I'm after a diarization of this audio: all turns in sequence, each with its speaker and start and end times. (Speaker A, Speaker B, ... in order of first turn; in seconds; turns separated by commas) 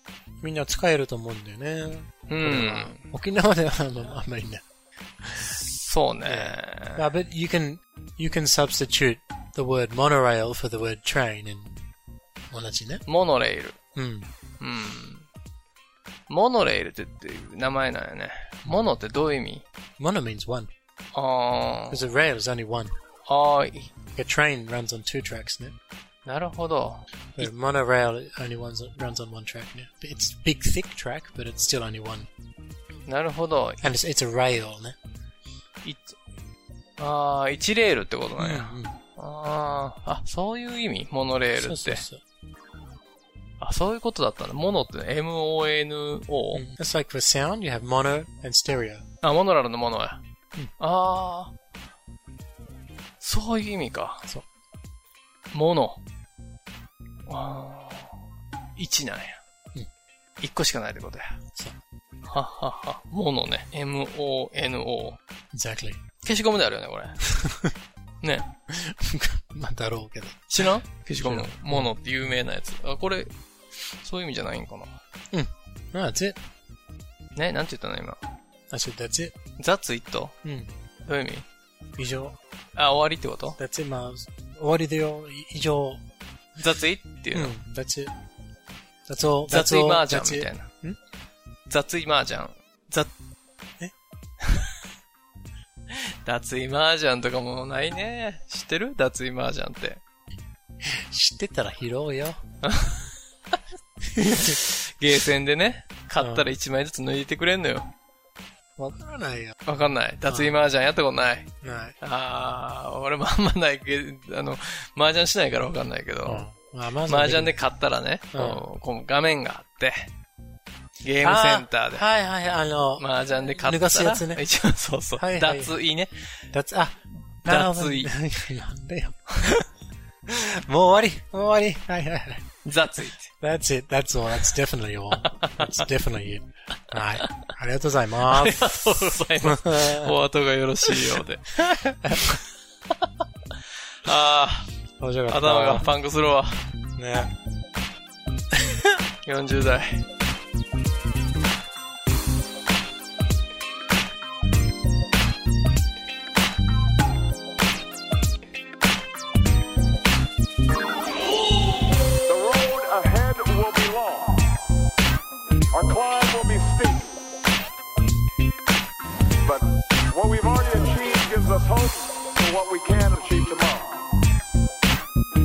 Speaker A: 0.4-4.6, Speaker B: 2.3-3.0, Speaker A: 5.2-5.6, Speaker B: 5.5-7.0, Speaker A: 6.2-11.8, Speaker A: 12.5-13.0, Speaker B: 13.1-13.8, Speaker A: 13.9-14.3, Speaker B: 14.6-15.3, Speaker B: 16.3-19.6, Speaker A: 18.6-18.9, Speaker A: 20.0-20.7, Speaker B: 21.1-22.0, Speaker A: 21.9-22.9, Speaker B: 23.2-23.9, Speaker A: 24.1-25.8, Speaker B: 26.2-27.5, Speaker A: 27.3-32.3, Speaker B: 33.0-33.9, Speaker A: 33.8-35.0, Speaker B: 35.8-36.2, Speaker B: 37.0-42.0, Speaker A: 38.4-39.0, Speaker A: 41.5-42.2, Speaker B: 43.6-46.6, Speaker A: 46.5-49.0, Speaker B: 49.2-50.2, Speaker B: 50.8-51.5, Speaker B: 53.2-54.3, Speaker B: 55.5-56.0, Speaker B: 57.3-58.2, Speaker B: 58.8-59.4, Speaker B: 60.4-61.4, Speaker B: 62.2-65.2, Speaker A: 65.5-66.0, Speaker B: 66.2-67.2, Speaker B: 68.2-68.5, Speaker A: 68.7-71.9, Speaker B: 70.5-73.3, Speaker B: 73.9-75.0, Speaker A: 75.3-76.4, Speaker B: 77.3-78.2, Speaker A: 78.7-79.3, Speaker B: 79.6-80.3, Speaker A: 80.4-80.7, Speaker B: 81.0-81.4, Speaker A: 82.0-82.4, Speaker B: 82.7-83.6, Speaker A: 83.6-86.0, Speaker B: 86.6-87.5, Speaker A: 87.3-88.1, Speaker A: 89.1-91.0, Speaker B: 89.5-90.7, Speaker B: 91.7-93.1, Speaker B: 94.4-94.7, Speaker B: 95.9-100.0, Speaker A: 100.8-102.4, Speaker B: 102.6-103.6, Speaker B: 104.2-107.9, Speaker A: 104.3-104.6, Speaker A: 106.2-106.5, Speaker A: 108.8-109.6, Speaker B: 109.6-116.5, Speaker A: 110.3-110.6, Speaker A: 111.6-112.0, Speaker A: 116.2-117.6, Speaker B: 117.0-120.1, Speaker A: 118.3-118.7, Speaker B: 121.0-122.0, Speaker A: 121.2-124.5, Speaker B: 123.0-126.4, Speaker A: 125.2-125.8, Speaker A: 126.5-129.6, Speaker B: 127.4-128.2, Speaker A: 130.3-132.6, Speaker B: 132.6-133.3, Speaker A: 133.2-140.2, Speaker B: 135.2-135.8, Speaker B: 138.2-142.4, Speaker A: 140.9-142.4, Speaker B: 143.1-144.7, Speaker A: 145.0-145.9, Speaker B: 145.3-146.6, Speaker A: 147.0-147.3, Speaker B: 149.2-150.1, Speaker C: 162.3-164.5, Speaker C: 165.7-167.2, Speaker C: 169.4-174.1